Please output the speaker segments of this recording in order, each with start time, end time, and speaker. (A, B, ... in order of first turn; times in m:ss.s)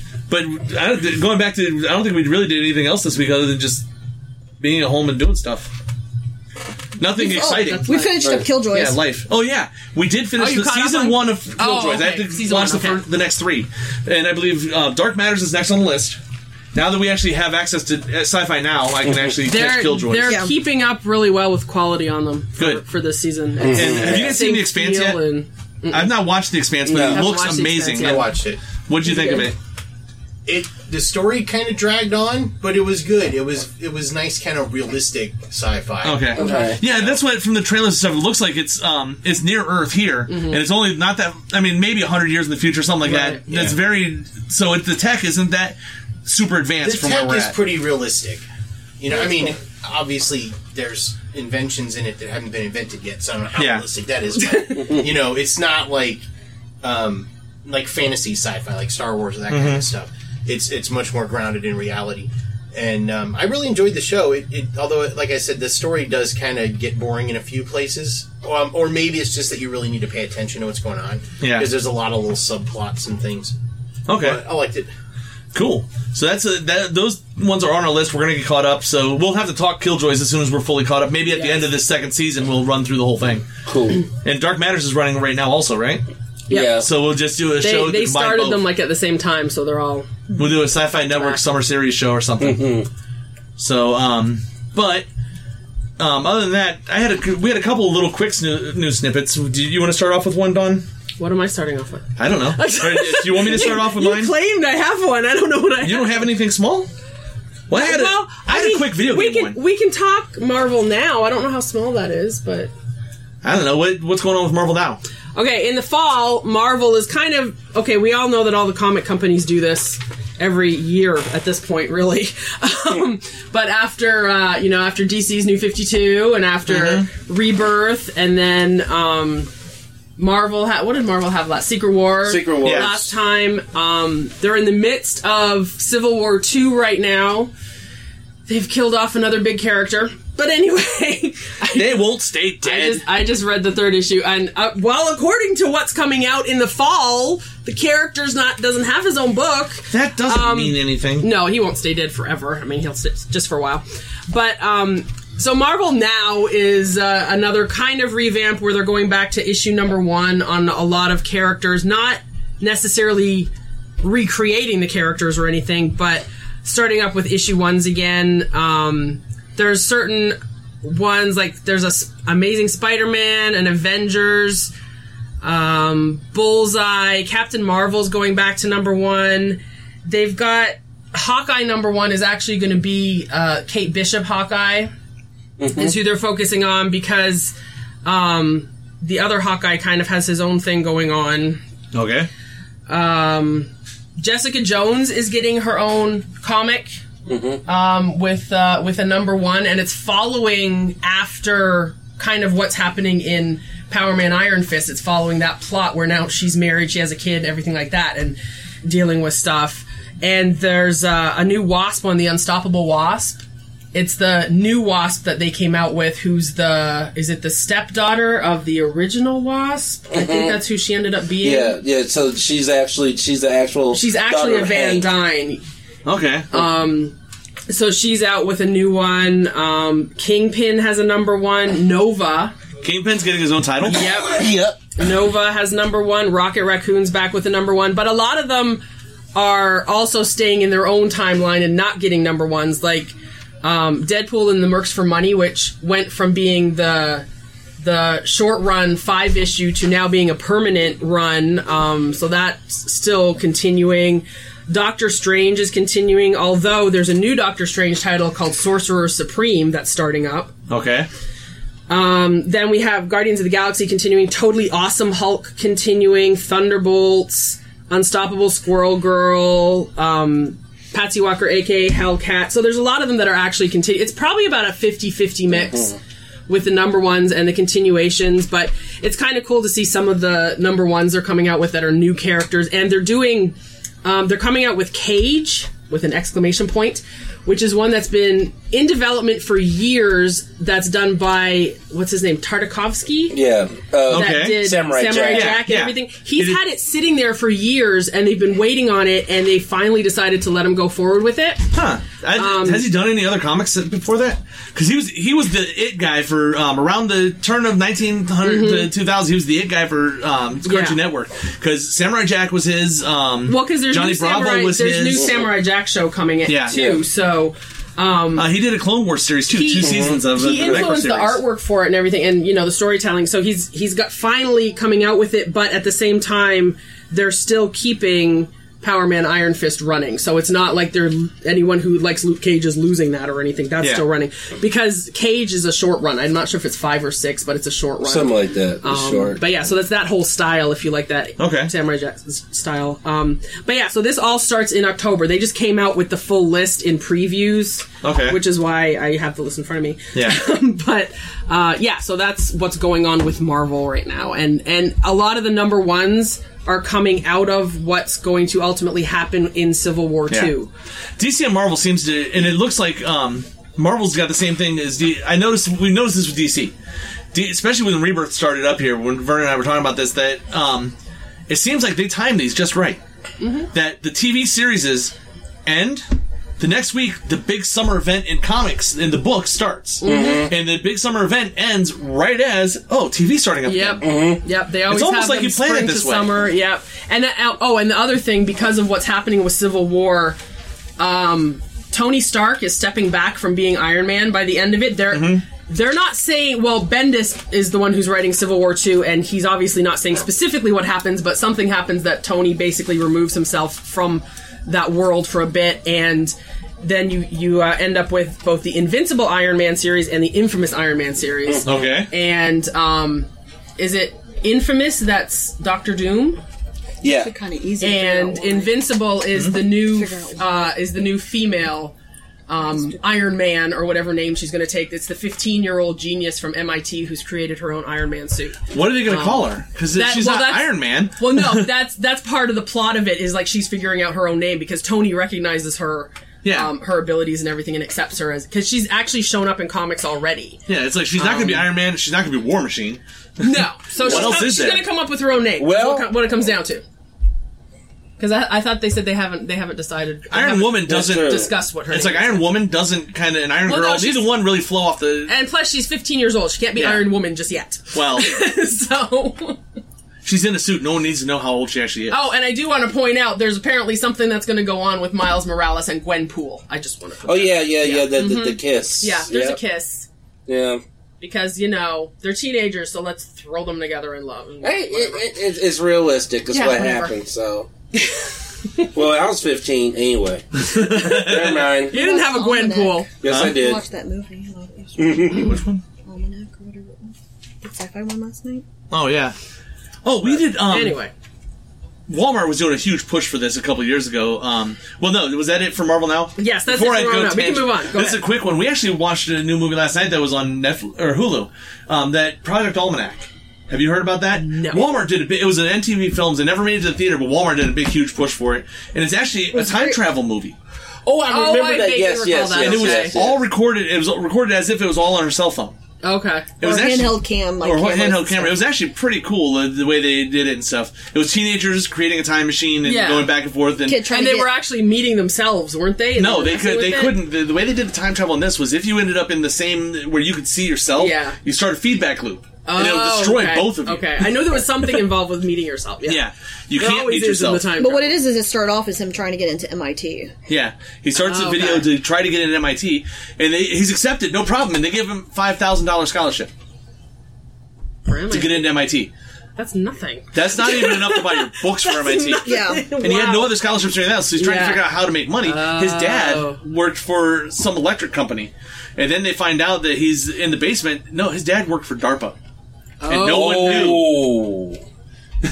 0:00.3-0:03.8 A
0:04.6-0:05.7 A
0:07.0-0:08.1 A
0:07.2-0:09.0 B
0:08.7-0:16.2 A
0:10.4-0:13.0 C
0:16.7-0:20.4 A
0:19.1-0:19.3 D
0:19.4-0:26.1 C
0:20.3-0:20.5 B
0:23.6-0:24.4 D
0:23.7-0:25.2 A
0:25.9-0:28.3 A
0:26.8-0:27.2 D
0:27.0-0:28.3 C
0:28.0-0:28.6 E
0:28.9-0:29.6 A
0:29.1-0:29.5 C
0:30.5-0:37.2 E
0:36.0-0:47.6 A
0:36.4-0:36.8 D
0:36.4-0:36.8 C
0:40.3-0:40.6 C
0:43.0-0:43.5 C
0:46.8-0:48.4 E
0:49.0-0:56.2 E
0:53.6-0:53.9 A
0:56.8-1:13.5 E
0:59.5-0:59.9 A
1:11.4-1:11.7 A
1:14.1-1:14.4 A
1:14.1-1:14.9 E
1:15.5-1:23.5 A
1:21.3-1:21.7 C
1:23.7-1:24.0 D
1:24.2-1:26.0 A
1:26.5-1:26.9 D
1:26.5-1:26.8 C
1:26.8-1:28.6 A
1:27.6-1:30.1 C
1:30.4-1:32.7 A
1:31.1-1:31.4 C
1:32.4-1:32.9 D
1:33.6-1:35.1 A
1:36.0-1:40.8 A
1:41.2-1:46.3 C
1:42.2-1:44.3 A
1:45.8-1:46.9 A
1:47.7-1:49.6 A
1:47.7-1:52.7 C
1:53.4-1:55.0 A
1:55.4-2:09.5 C
2:06.7-2:07.1 A
2:10.2-2:17.5 C
2:12.2-2:13.0 D
2:12.6-2:13.1 A
2:18.5-2:22.1 C
2:21.7-2:23.0 A
2:22.6-2:43.5 C
2:29.9-2:31.3 A
2:44.0-2:54.7 C
2:55.4-3:04.9 C
3:05.6-3:06.0 D
3:05.8-3:07.5 C
3:08.0-3:11.6 C
3:11.9-3:12.3 A
3:12.9-3:17.0 C
3:17.3-3:17.6 D
3:17.7-3:33.4 C
3:33.9-3:41.8 C
3:40.1-3:40.6 D
3:41.4-3:45.1 D
3:43.9-3:45.6 C
3:46.0-3:46.5 A
3:46.5-3:47.2 C
3:47.7-3:52.5 C
3:52.8-3:54.0 A
3:53.9-3:54.8 D
3:53.9-3:54.4 C
3:55.0-3:58.8 C
3:59.4-4:07.3 C
4:07.8-4:20.5 C
4:20.7-4:21.1 A
4:21.9-4:36.0 C
4:35.5-4:36.0 D
4:36.5-4:53.4 C
4:53.3-4:55.6 D
4:54.1-5:01.7 C
4:54.1-4:56.6 A
5:01.7-5:15.3 A
5:02.4-5:02.9 C
5:08.4-5:08.9 C
5:10.6-5:11.0 C
5:13.5-5:18.5 C
5:15.2-5:15.5 D
5:16.5-5:16.8 A
5:16.7-5:17.0 D
5:18.4-5:21.4 A
5:19.5-6:00.7 C
5:19.8-5:20.9 D
5:38.0-5:39.4 D
5:41.4-5:41.7 A
5:48.0-5:48.4 A
5:50.1-5:50.4 A
6:01.2-6:06.7 A
6:07.3-6:10.9 A
6:11.5-6:13.0 A
6:13.4-6:13.7 C
6:13.7-6:15.1 A
6:15.7-6:16.0 A
6:16.6-6:24.0 A
6:20.0-6:20.5 C
6:20.0-6:20.5 D
6:23.7-6:30.4 C
6:24.0-6:24.4 D
6:24.9-6:26.4 A
6:31.0-6:56.4 C
6:35.1-6:35.4 A
6:51.6-6:52.1 A
6:57.0-6:57.3 D
6:57.0-6:58.8 B
6:57.8-7:02.0 C
6:59.6-7:00.7 B
7:02.5-7:20.6 C
7:02.7-7:03.0 B
7:08.7-7:11.7 A
7:16.4-7:16.7 A
7:20.7-7:24.9 A
7:21.2-7:21.6 C
7:23.4-7:26.8 C
7:24.0-7:24.5 D
7:25.6-7:26.1 D
7:28.2-7:32.5 C
7:30.3-7:35.3 A
7:30.9-7:31.5 D
7:33.6-7:34.3 C
7:35.3-7:39.6 C
7:36.8-7:37.1 A
7:37.9-7:38.4 A
7:40.2-7:42.3 A
7:42.1-7:50.1 C
7:47.2-7:49.6 D
7:50.5-7:50.8 D
7:51.2-7:55.4 C
7:54.6-7:57.7 D
7:56.5-7:57.2 C
7:58.9-8:02.0 D
8:00.6-8:01.7 A
8:00.8-8:03.1 C
8:01.9-8:08.7 B
8:03.2-8:03.8 D
8:03.2-8:03.6 A
8:05.0-8:05.5 D
8:05.3-8:05.8 A
8:08.9-8:09.4 A
8:10.0-8:11.0 A
8:10.3-8:11.1 C
8:12.1-8:30.6 A
8:16.4-8:18.2 C
8:24.3-8:24.9 C
8:29.5-8:30.0 B
8:31.0-8:33.4 D
8:31.3-8:33.2 C
8:32.6-8:35.8 A
8:36.0-8:36.5 C
8:36.6-8:44.0 A
8:36.6-8:38.6 B
8:42.8-8:43.3 C
8:43.9-8:44.5 B
8:44.1-8:47.2 C
8:46.2-8:54.2 A
8:51.0-8:51.4 C
8:52.7-8:56.2 C
8:56.1-8:57.7 A
8:56.8-8:58.2 C
8:57.8-9:00.3 B
9:00.5-9:06.5 A
9:01.2-9:01.9 C
9:08.1-9:08.7 C
9:08.3-9:09.1 A
9:09.6-9:13.5 C
9:10.3-9:12.5 A
9:12.4-9:12.9 B
9:13.0-9:22.4 A
9:14.4-9:14.8 C
9:15.4-9:16.6 C
9:23.0-9:24.0 C
9:23.0-9:24.1 A
9:23.2-9:24.8 D